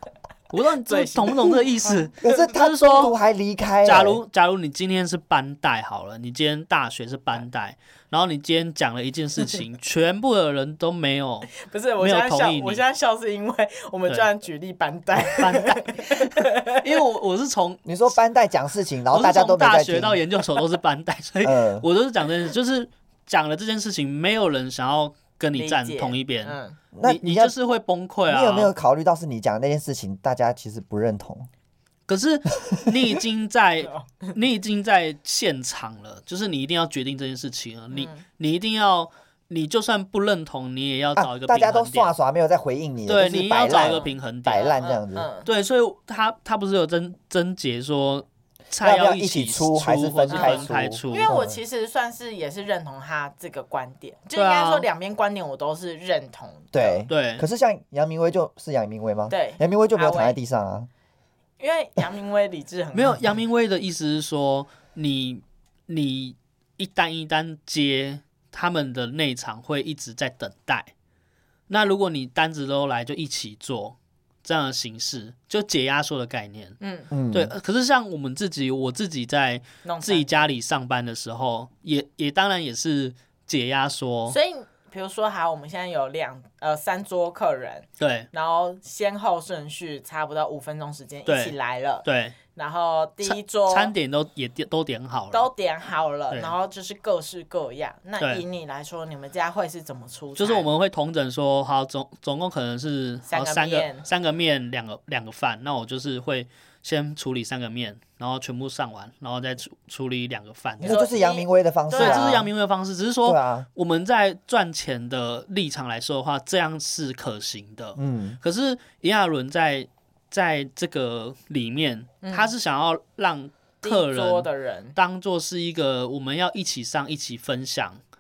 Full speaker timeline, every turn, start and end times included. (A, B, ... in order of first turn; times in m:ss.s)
0:00.5-0:03.1 A
0:00.9-0:02.4 B
0:02.2-0:04.2 C
0:03.8-0:12.8 A
0:11.6-0:17.0 B
0:15.2-0:17.8 A
0:17.9-0:20.2 C
0:19.1-0:28.7 A
0:21.4-0:21.9 C
0:25.6-0:26.8 B
0:26.9-0:27.5 C
0:28.3-0:31.5 C
0:32.1-0:42.1 A
0:32.6-0:33.2 C
0:33.8-0:34.4 B
0:37.9-0:38.2 B
0:41.2-0:45.3 C
0:43.1-0:44.7 A
0:43.7-0:45.5 B
0:45.4-0:51.3 A
0:48.8-0:51.6 C
0:50.3-0:57.0 B
0:54.4-0:54.9 A
0:56.7-1:00.9 C
0:57.1-0:57.4 A
0:59.3-1:00.4 B
1:01.6-1:03.3 B
1:02.9-1:10.9 A
1:11.7-1:16.8 A
1:16.8-1:17.1 B
1:17.1-1:17.5 C
1:17.3-1:24.4 A
1:19.8-1:20.5 B
1:24.3-1:33.9 B
1:28.0-1:28.3 A
1:31.3-1:32.4 A
1:33.2-1:35.5 A
1:35.3-1:40.7 B
1:40.4-1:51.0 A
1:43.3-1:44.0 B
1:50.8-1:52.5 C
1:50.8-1:52.4 B
1:52.0-2:08.0 A
1:53.2-1:53.7 C
1:58.0-1:58.4 C
2:02.2-2:02.5 B
2:03.8-2:05.0 B